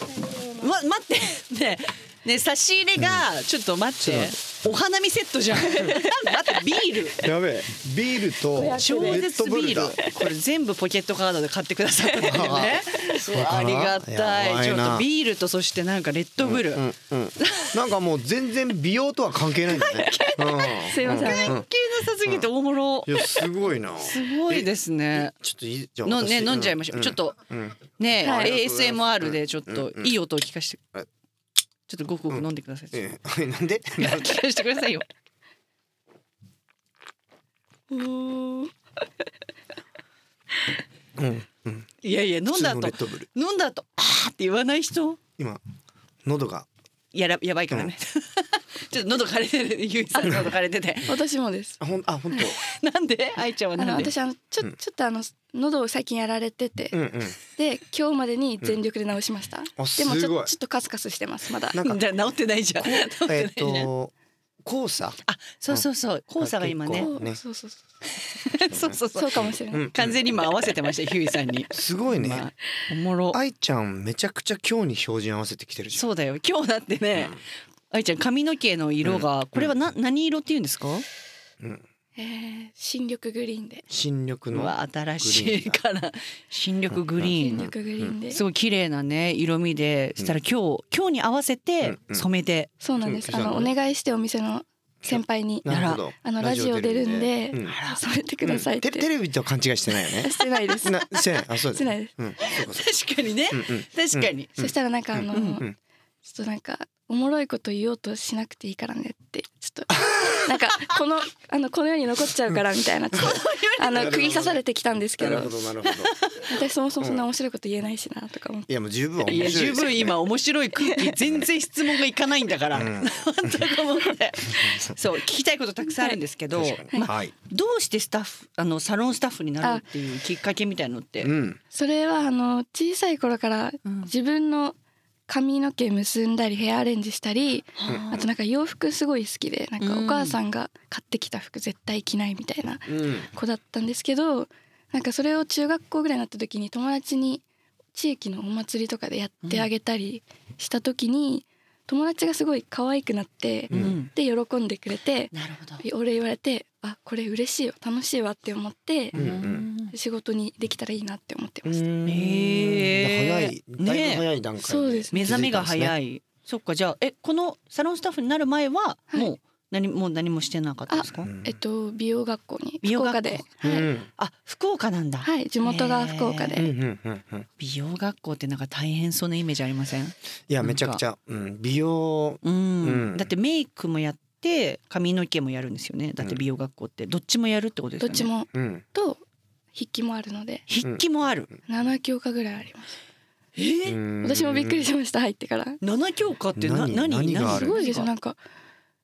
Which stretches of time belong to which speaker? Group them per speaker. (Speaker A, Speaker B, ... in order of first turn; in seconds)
Speaker A: 0.5-7.2, 8.8-16.8, 17.4-17.8, 19.8-23.5, 24.0-25.3, 26.0-27.4, 28.0-30.8, 31.9-33.1, 34.0-35.0, 42.0-45.2, 47.1-51.1, 52.6-54.1, 61.8-63.9, 65.2-67.1, 68.2-73.4, 75.9-81.0, 84.5-87.7, 88.3-92.7, 95.7-96.0, 97.6-98.0, 102.4-104.5, 105.3-105.6, 113.1-114.5, 115.2-116.5, 119.2-131.3, 133.8-134.1, 137.8-138.3, 139.8-140.4, 153.7-154.1, 155.3-155.8, 159.1-159.9, 162.1-164.2, 165.1-171.3, 172.8-173.6, 174.2-176.7, 177.6-181.0, 182.4-188.3, 190.7-191.5, 193.6-194.0, 195.8-198.1
Speaker B: 3.0-3.2, 4.0-4.4, 7.2-10.0, 12.2-15.1, 16.4-21.7, 22.2-22.5, 23.0-30.1, 32.3-34.4, 41.2-41.9, 42.5-43.3, 46.2-46.7, 51.8-52.6, 56.9-57.4, 59.8-60.5, 61.7-62.0, 62.8-65.2, 66.4-67.4, 68.7-70.3, 71.7-72.5, 73.3-76.0, 79.0-79.7, 83.9-85.8, 86.9-88.1, 91.8-92.2, 93.0-93.7, 95.0-97.8, 98.4-102.9, 103.5-105.8, 110.0-110.2, 113.9-114.6, 115.2-116.1, 117.0-117.2, 118.7-120.2, 122.7-123.7, 124.5-124.9, 126.5-127.3, 131.2-131.6, 137.9-138.1, 142.9-143.3, 153.7-153.9, 159.1-159.7, 161.6-165.9, 171.2-171.6, 173.6-174.1, 176.6-177.5, 180.5-183.3, 188.5-188.8, 190.8-191.6, 193.9-194.9, 196.6-197.8
Speaker C: 5.6-6.3, 8.5-9.2, 19.8-21.6, 28.2-28.5, 37.9-38.7, 50.1-50.5, 51.0-51.8, 53.8-61.8, 67.0-67.8, 69.1-69.9, 82.2-83.8, 87.4-88.4, 92.8-99.1, 100.2-102.1, 104.6-105.7, 106.2-115.5, 116.5-118.7, 120.9-121.1, 131.7-134.7, 135.3-147.4, 147.9-159.1, 159.9-161.8, 164.6-165.3, 170.9-173.9, 175.2-176.7, 188.0-189.2, 189.7-190.7, 191.7-192.9, 194.2-195.8, 197.5-198.4